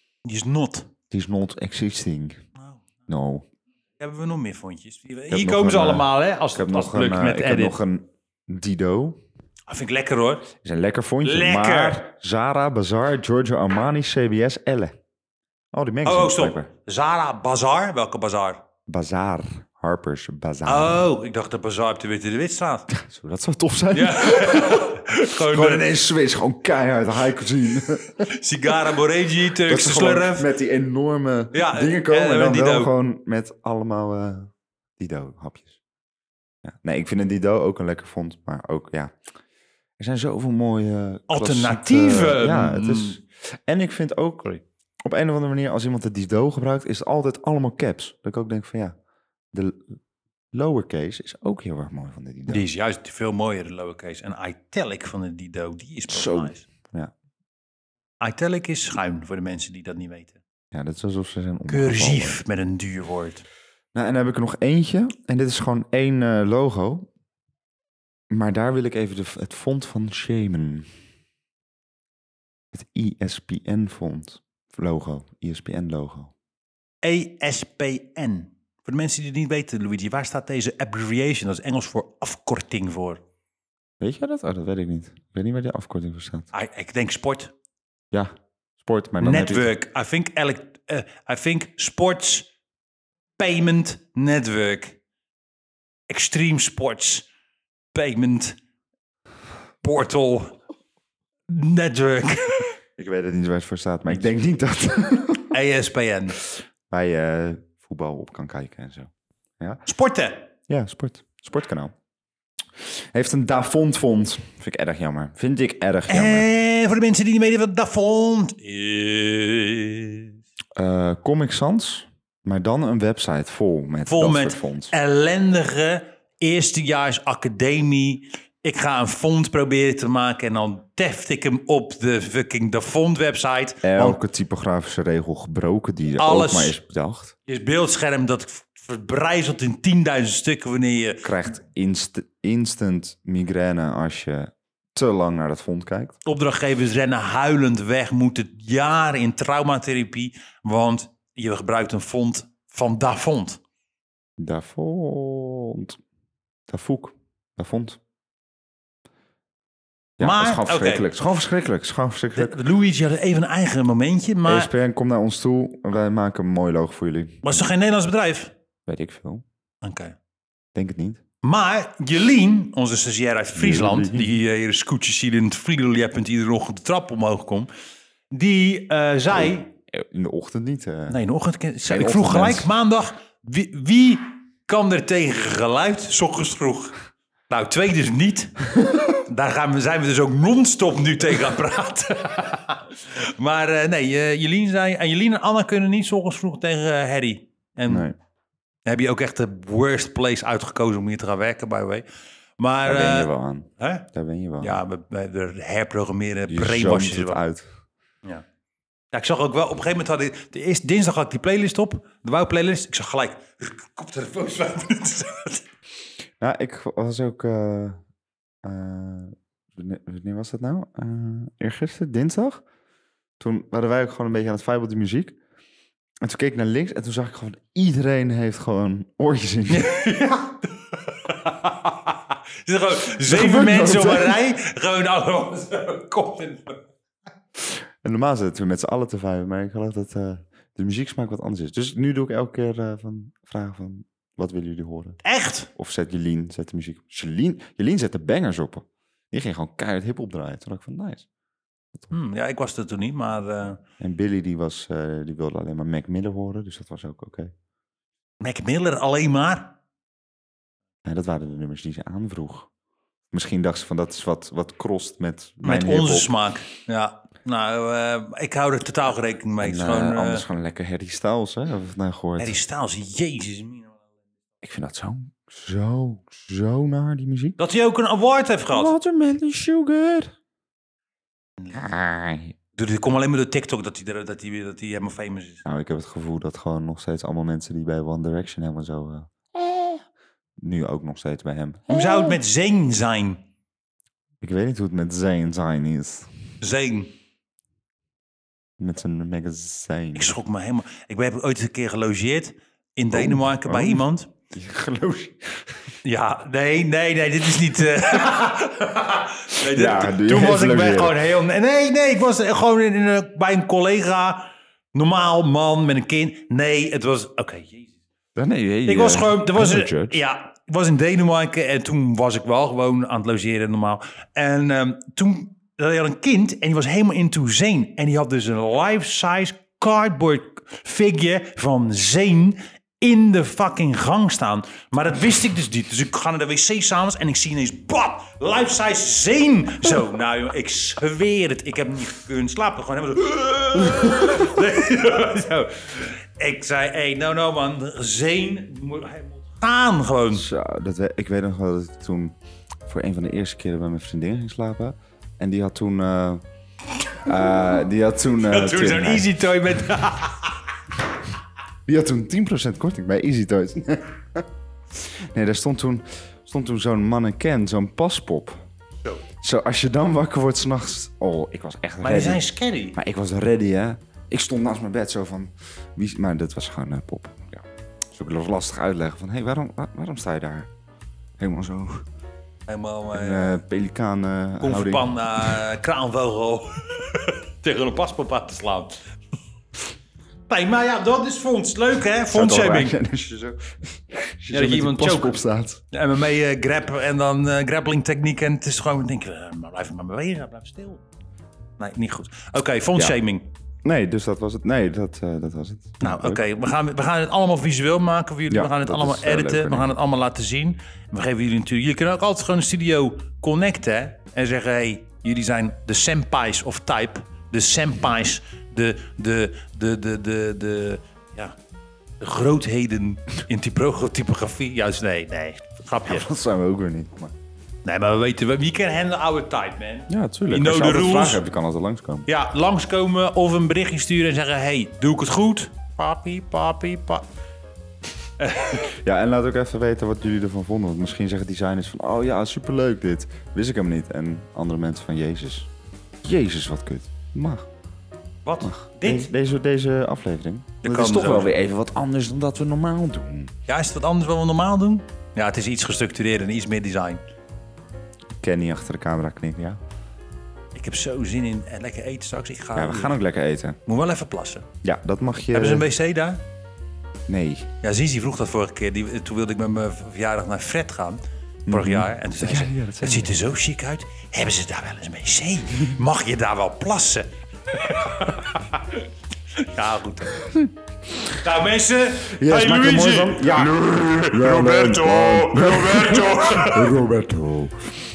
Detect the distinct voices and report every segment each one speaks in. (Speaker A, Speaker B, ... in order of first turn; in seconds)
Speaker A: 0.2-0.9, 2.6-2.8, 4.0-7.7, 9.7-10.5, 11.2-12.0, 16.0-18.6, 20.6-22.9, 23.9-25.8, 28.2-30.5, 31.5-32.9, 41.3-43.2, 52.5-56.6, 58.2-60.4, 61.7-63.4, 77.0-83.2, 86.5-87.5, 89.2-92.5, 93.4-95.0, 96.1-97.2, 97.9-98.5, 99.8-100.5, 101.5-102.7, 105.5-106.4, 109.8-110.5, 116.1-120.3, 124.1-134.2, 136.2-136.7, 137.5-141.2, 146.2-153.6, 160.2-161.1, 162.3-164.7, 167.4-168.5, 169.8-170.2, 171.4-177.7, 178.3-179.7, 181.1-187.0, 187.5-188.7, 189.2-198.1, 198.8-202.0, 202.6-204.1, 204.6-207.4, 209.1-215.6, 229.7-236.8, 245.2-245.7, 252.1-253.8, 258.4-259.8, 265.6-270.4, 272.4-273.9, 277.6-278.9, 282.8-285.6, 291.9-293.4, 296.6-297.1, 300.1-304.3, 306.0-317.9, 318.9-350.5, 358.4-360.6, 372.0-373.0, 382.7-383.6, 384.6-389.0, 390.5-392.9, 394.5-395.4, 395.9-401.0, 401.8-403.5, 406.0-421.5, 422.2-426.3, 427.8-431.4, 432.2-437.2, 438.4-438.9, 448.4-449.3, 450.8-451.5, 453.7-457.2, 460.7-463.2, 463.9-464.6, 465.5-466.4, 467.8-479.0, 479.6-480.5, 481.3-486.9
Speaker B: 1.1-2.4, 3.1-3.4, 5.3-9.2, 10.6-15.0, 15.7-16.7, 18.9-21.1, 22.9-28.3, 29.6-35.8, 36.6-39.1, 40.0-44.5, 45.0-48.9, 49.5-49.9, 50.5-52.6, 56.1-57.1, 60.7-62.4, 63.9-67.1, 68.3-70.9, 72.7-76.3, 84.0-86.5, 88.1-89.7, 103.0-105.5, 106.9-109.8, 110.7-111.9, 112.8-116.5, 120.8-124.9, 133.8-137.3, 141.2-146.2, 154.4-156.0, 156.7-158.0, 160.2-162.6, 164.4-167.6, 168.8-169.4, 170.7-171.2, 173.5-174.3, 179.3-181.2, 181.8-182.7, 197.9-198.1, 202.8-204.8, 206.5-207.7, 216.4-218.0, 218.6-222.6, 223.4-225.4, 226.2-229.9, 233.2-234.4, 237.6-245.2, 245.8-251.2, 254.0-257.5, 261.0-262.7, 263.3-266.3, 269.6-272.6, 274.6-277.6, 278.7-280.3, 281.7-282.5, 285.6-290.0, 290.6-292.4, 294.4-296.3, 298.8-300.3, 303.1-305.9, 309.7-311.2, 318.3-320.2, 350.3-352.4, 352.9-356.4, 357.2-359.4, 361.9-368.6, 369.4-372.4, 372.9-380.7, 381.4-382.0, 383.1-385.6, 392.3-395.8, 403.8-406.4, 408.5-409.9, 426.1-427.3, 430.1-432.3, 438.8-445.7, 446.2-447.7, 448.6-453.5, 458.4-459.8, 462.7-463.8, 464.8-465.9, 467.3-467.7, 471.7-473.3, 480.4-481.4, 482.2-487.8